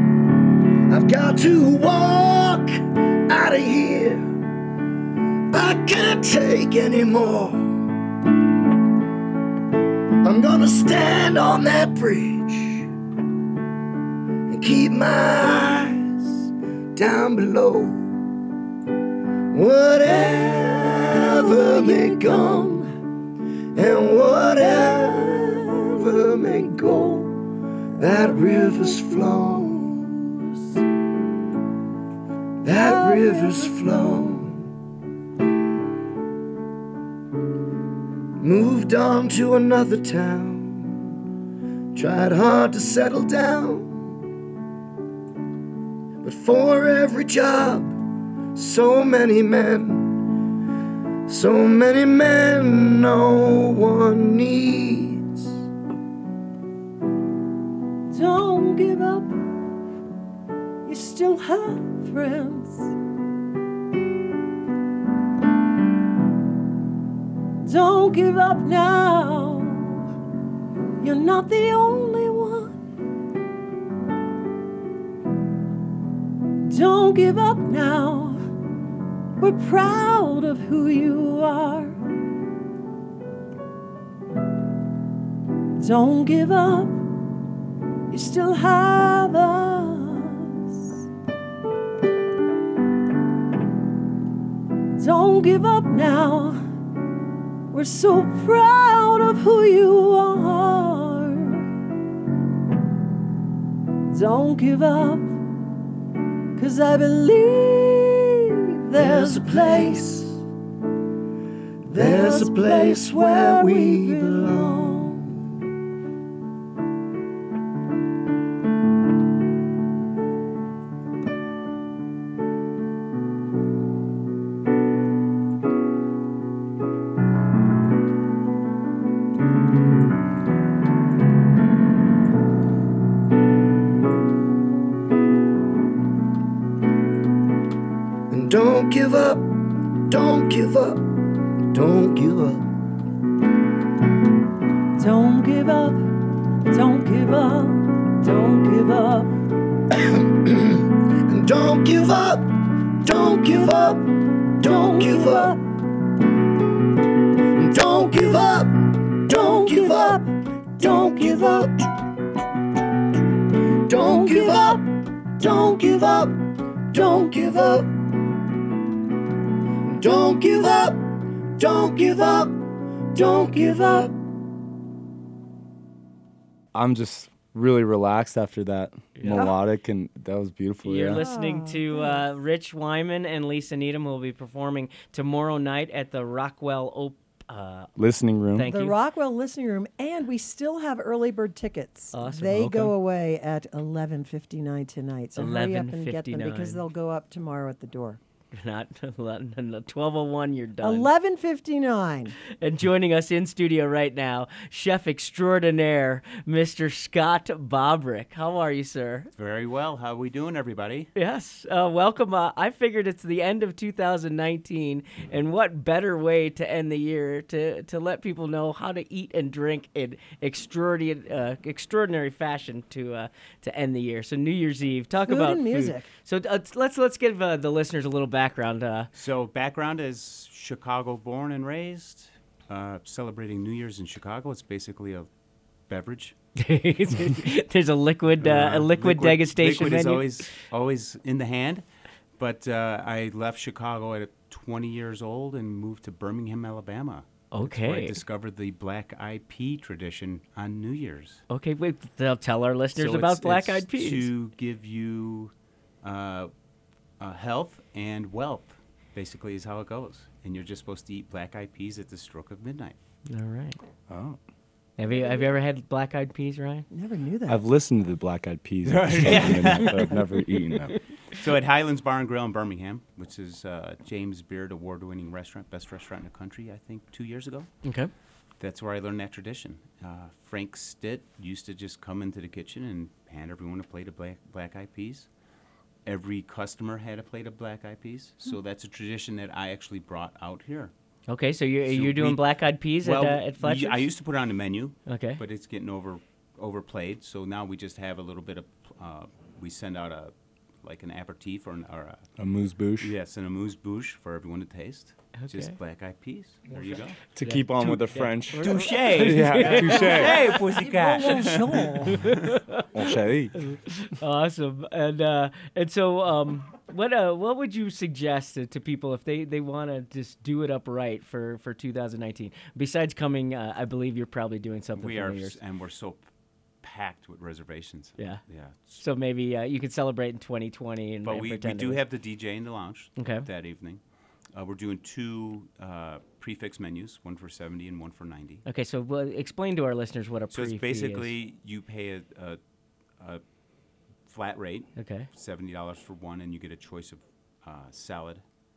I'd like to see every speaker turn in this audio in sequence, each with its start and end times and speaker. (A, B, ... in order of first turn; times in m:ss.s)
0:00.9-0:04.3 A
0:05.5-0:07.8 A
0:10.2-0:12.9 A
0:14.5-0:16.4 A
0:16.9-0:18.1 A
0:19.5-0:22.8 A
0:20.1-0:22.9 B
0:23.7-0:27.3 A
0:24.8-0:25.9 B
0:28.0-0:30.1 A
0:28.0-0:30.6 B
0:32.6-0:34.6 A
0:32.6-0:33.8 B
0:38.4-0:41.1 A
0:41.9-0:44.1 A
0:46.2-0:48.0 A
0:48.5-0:50.1 A
0:51.3-0:55.5 A
0:58.1-0:59.4 B
1:00.8-1:02.9 B
1:07.6-1:10.0 B
1:11.0-1:12.8 B
1:16.6-1:18.4 B
1:19.4-1:22.0 B
1:25.8-1:27.0 B
1:28.1-1:30.9 B
1:35.0-1:36.6 B
1:37.7-1:41.7 B
1:44.1-1:45.3 B
1:46.6-1:50.0 B
1:49.0-1:50.4 A
1:51.8-1:55.4 A
1:51.9-1:55.0 B
2:18.3-2:19.5 A
2:20.1-2:21.0 A
2:21.7-2:22.7 A
2:25.0-2:26.0 B
2:26.7-2:29.3 B
2:29.9-2:34.1 A
2:34.6-2:35.6 A
2:34.6-2:35.6 B
2:37.5-2:40.2 A
2:39.3-2:40.3 B
2:40.8-2:41.8 A
2:43.8-2:46.4 A
2:44.1-2:44.8 B
2:46.9-2:47.9 A
2:49.8-2:51.0 A
2:51.6-2:52.6 A
2:53.1-2:54.2 A
2:56.7-3:01.2 C
2:59.2-2:59.5 D
2:59.3-2:59.6 B
3:00.8-3:07.9 D
3:01.1-3:02.2 B
3:08.0-3:08.7 C
3:08.5-3:09.0 D
3:08.7-3:18.2 B
3:12.1-3:12.9 D
3:15.4-3:16.8 D
3:18.5-3:21.1 D
3:20.8-3:22.3 B
3:22.5-3:29.3 D
3:29.3-3:31.1 E
3:31.1-3:49.1 D
3:45.2-3:46.1 B
3:49.1-3:55.3 E
3:55.9-3:56.3 E
3:56.6-4:00.5 D
3:58.4-4:01.8 E
4:02.4-4:11.4 E
4:07.5-4:08.2 D
4:11.5-4:14.3 D
4:12.9-4:16.5 E
4:17.2-4:23.0 E
4:23.3-4:23.8 D
4:24.1-4:24.4 C
4:25.0-4:26.9 D
4:26.9-4:27.6 B
4:27.5-4:31.0 C
4:28.8-4:30.2 E
4:29.6-4:30.1 D
4:31.3-4:37.7 E
4:37.8-4:38.1 D
4:38.6-4:45.3 E
4:46.0-4:50.9 E
4:51.3-4:54.1 D
4:51.8-5:02.2 E
4:55.1-4:55.4 D
5:02.4-5:03.1 C
5:03.0-5:07.2 E
5:05.4-5:05.7 D
5:06.7-5:10.5 D
5:07.3-5:10.5 C
5:08.6-5:12.5 E
5:09.9-5:12.2 B
5:12.0-5:25.6 D
5:12.9-5:13.6 C
5:25.0-5:26.3 E
5:26.8-5:29.0 E
5:28.2-5:28.4 D
5:29.0-5:32.0 D
5:31.2-5:34.0 E
5:33.2-5:33.5 D
5:34.5-5:38.6 E
5:38.6-5:41.3 D
5:40.5-5:42.6 E
5:44.2-5:48.4 E
5:45.0-5:45.3 D